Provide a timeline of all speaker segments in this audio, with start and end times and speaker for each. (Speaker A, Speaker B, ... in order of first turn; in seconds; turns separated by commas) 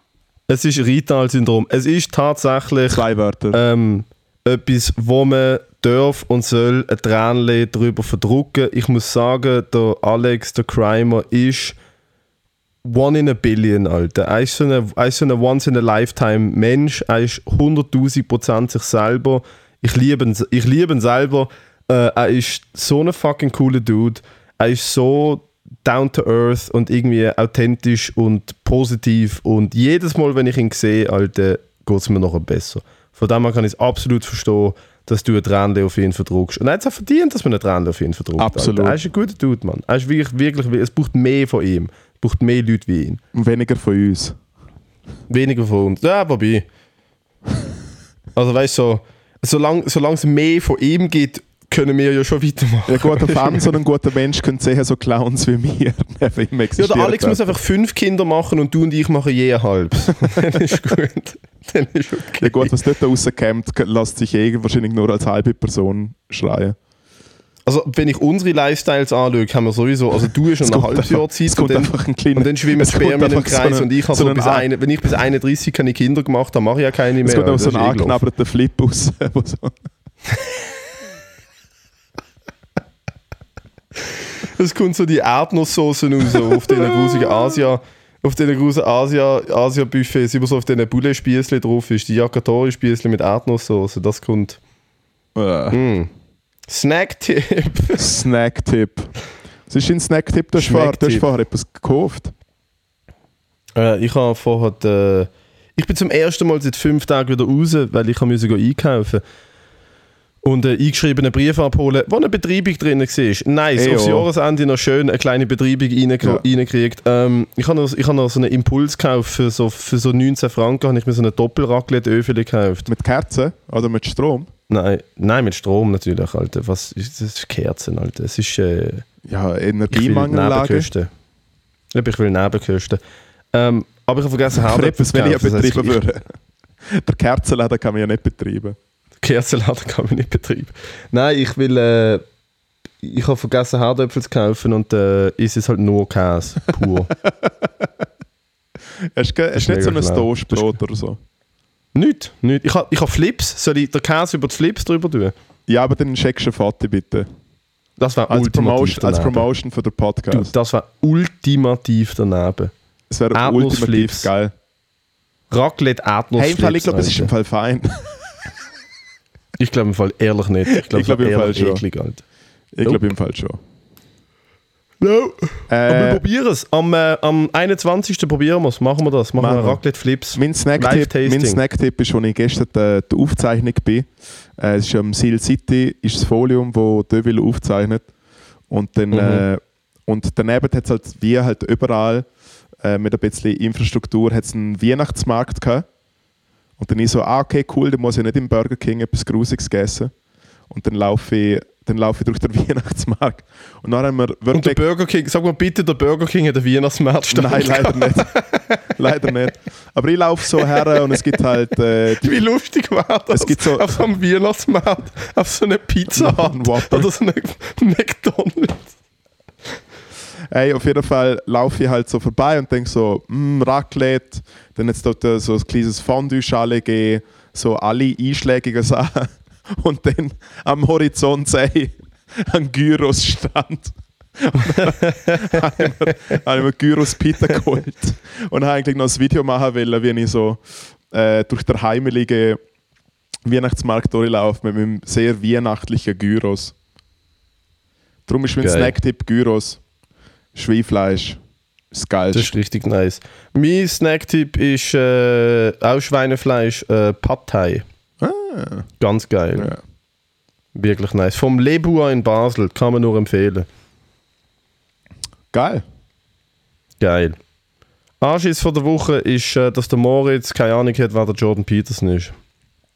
Speaker A: 0.5-11.8, Speaker B: 2.9-3.6, Speaker A: 12.8-43.2, Speaker B: 38.4-39.0, Speaker B: 43.3-44.4, Speaker A: 45.3-46.6, Speaker A: 48.4-53.8, Speaker B: 52.9-57.5, Speaker A: 56.8-62.8, Speaker B: 62.4-66.8, Speaker A: 67.7-78.2, Speaker B: 70.6-74.7, Speaker B: 77.2-79.8, Speaker A: 84.4-94.6, Speaker B: 95.3-95.8, Speaker A: 95.7-96.1, Speaker A: 96.7-98.1, Speaker B: 98.0-99.1, Speaker B: 99.7-102.3, Speaker A: 100.6-101.3, Speaker A: 103.8-109.2, Speaker A: 110.4-122.9, Speaker B: 113.8-114.3, Speaker B: 122.9-124.5, Speaker A: 124.7-129.1, Speaker B: 129.2-130.9, Speaker A: 129.9-131.1, Speaker A: 131.9-133.0, Speaker A: 133.5-136.0, Speaker B: 134.6-136.3, Speaker B: 136.9-138.8, Speaker A: 139.2-142.2, Speaker A: 143.0-147.1, Speaker B: 147.4-147.9, Speaker B: 149.2-151.2, Speaker A: 149.6-150.8, Speaker A: 151.9-155.3, Speaker B: 155.7-157.3, Speaker A: 158.0-159.5, Speaker B: 158.3-160.5, Speaker A: 160.3-162.7, Speaker B: 163.1-164.5, Speaker A: 163.3-164.3, Speaker A: 165.5-167.3, Speaker B: 166.4-168.2, Speaker A: 169.6-172.2, Speaker B: 170.8-171.8, Speaker B: 172.8-173.6, Speaker A: 175.0-181.6, Speaker B: 175.7-176.2, Speaker B: 179.4-179.8, Speaker B: 180.3-188.1, Speaker B: 188.7-192.3, Speaker A: 189.1-189.4, Speaker B: 192.8-195.8, Speaker B: 196.8-200.1, Speaker B: 200.7-204.8, Speaker A: 204.5-209.3, Speaker B: 207.3-208.3, Speaker B: 209.0-212.4, Speaker A: 210.6-211.4, Speaker A: 212.1-218.9, Speaker B: 213.3-214.1, Speaker B: 216.2-217.1, Speaker B: 220.5-242.6, Speaker A: 234.6-236.4, Speaker B: 243.5-246.7, Speaker B: 248.3-249.8, Speaker A: 248.6-248.9, Speaker B: 250.6-251.4, Speaker B: 251.9-252.5, Speaker A: 252.3-257.9, Speaker B: 258.2-258.9, Speaker A: 259.0-259.8, Speaker A: 260.7-263.7, Speaker B: 265.5-265.8, Speaker A: 267.0-267.4, Speaker A: 268.2-272.3